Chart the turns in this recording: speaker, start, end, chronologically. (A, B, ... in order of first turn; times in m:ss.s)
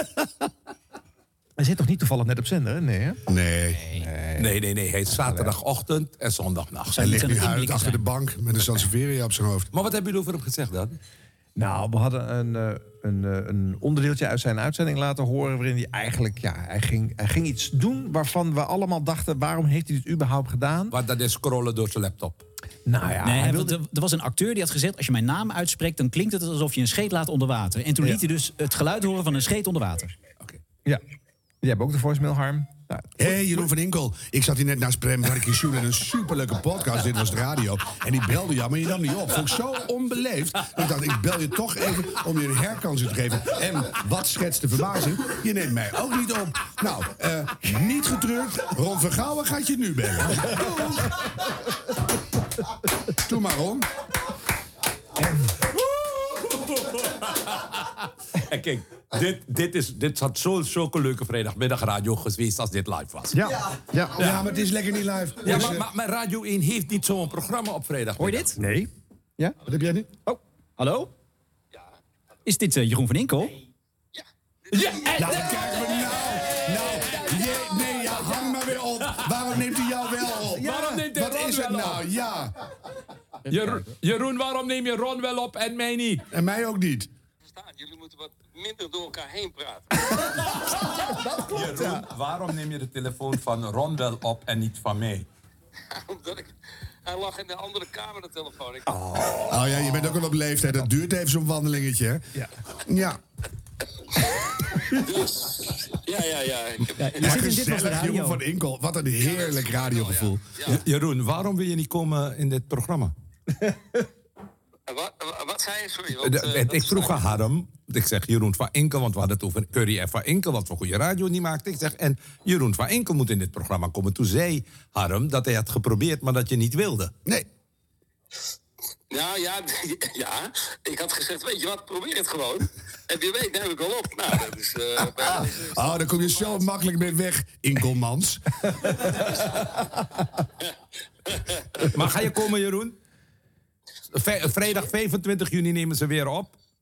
0:01.6-0:03.2 A
0:03.3-0:03.8 B
0:04.0-0:04.5 A
0:04.4-0:07.0 C
0:05.1-0:05.5 A
0:06.9-0:08.0 D
0:07.0-0:09.7 B
0:09.7-0:11.0 C
0:11.6-0:21.0 A
0:20.9-0:22.4 C
0:22.8-0:23.8 A
0:23.2-0:30.1 D
0:31.6-0:33.2 A
0:33.2-0:50.8 B
0:53.2-0:53.9 B
0:56.2-1:03.5 C
1:03.3-1:04.2 A
1:04.2-1:05.8 B
1:04.2-1:04.5 C
1:05.4-1:08.6 C
1:08.2-1:08.5 D
1:08.6-1:09.5 A
1:09.6-1:10.1 B
1:10.2-1:11.1 D
1:12.4-1:13.5 D
1:14.1-1:15.8 E
1:14.7-1:16.0 C
1:15.2-1:22.5 B
1:20.5-1:22.0 C
1:23.5-1:26.2 C
1:26.3-1:27.1 B
1:27.5-1:29.9 E
1:31.1-1:32.0 A
1:31.5-1:35.2 C
1:35.9-1:36.5 E
1:37.0-1:38.8 E
1:38.9-1:40.0 A
1:39.5-1:42.2 B
1:42.9-1:43.2 B
1:45.0-1:47.3 E
1:47.0-1:48.4 D
1:47.2-1:50.4 B
1:49.2-1:50.8 E
1:50.6-1:53.1 C
1:54.9-1:57.3 E
1:56.2-2:07.1 C
2:09.1-2:16.6 E
2:15.2-2:18.4 B
2:21.9-2:22.9 C
2:24.1-2:26.5 C